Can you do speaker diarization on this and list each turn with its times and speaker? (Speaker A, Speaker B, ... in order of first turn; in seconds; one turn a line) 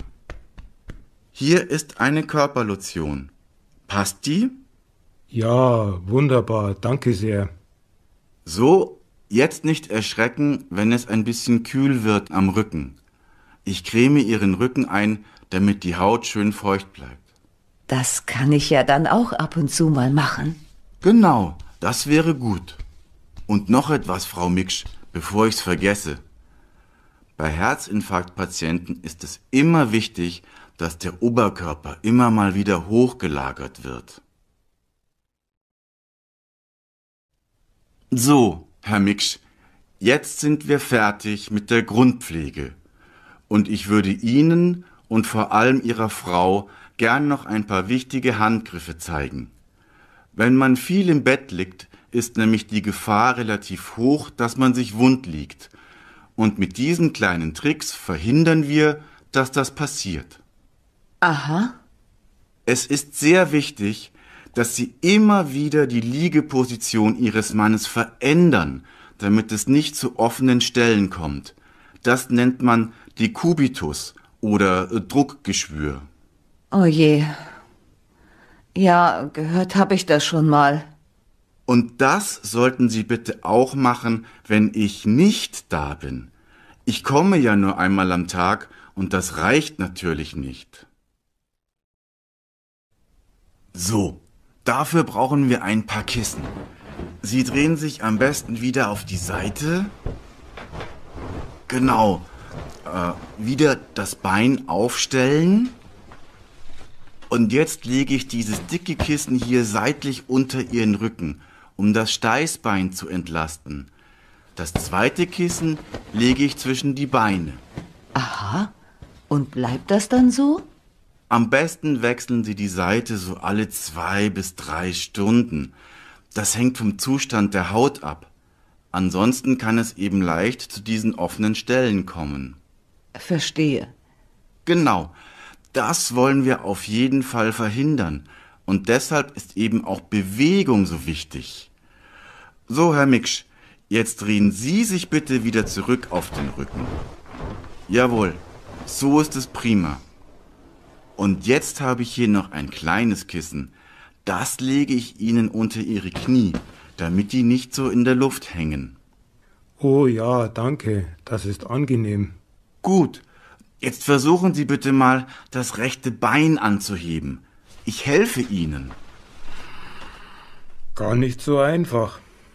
Speaker A: 1.3-3.3
Speaker A: 3.9-4.6
Speaker B: 5.3-7.5
Speaker A: 8.4-13.0
Speaker A: 13.7-17.3
Speaker C: 17.9-20.6
Speaker A: 21.0-22.8
Speaker A: 23.5-26.2
Speaker A: 27.4-34.2
Speaker A: 38.1-39.4
Speaker A: 40.0-42.8
Speaker A: 43.5-49.5
Speaker A: 50.3-55.7
Speaker A: 56.4-60.4
Speaker C: 61.2-61.7
Speaker A: 62.6-76.1
Speaker C: 76.7-77.4
Speaker C: 78.7-80.9
Speaker A: 81.7-86.3
Speaker A: 86.8-90.8
Speaker A: 93.7-96.5
Speaker A: 97.2-99.9
Speaker A: 101.7-102.3
Speaker A: 102.8-105.8
Speaker A: 107.3-113.9
Speaker A: 114.5-117.6
Speaker C: 118.1-118.7
Speaker C: 119.3-120.6
Speaker A: 121.3-125.7
Speaker A: 126.3-128.3
Speaker A: 128.9-132.6
Speaker C: 133.2-133.9
Speaker A: 134.7-135.2
Speaker A: 135.7-141.7
Speaker A: 142.7-146.9
Speaker A: 147.9-150.0
Speaker A: 151.2-153.7
Speaker A: 154.2-158.9
Speaker B: 159.8-162.3
Speaker A: 162.8-163.2
Speaker A: 163.8-168.9
Speaker B: 170.9-172.2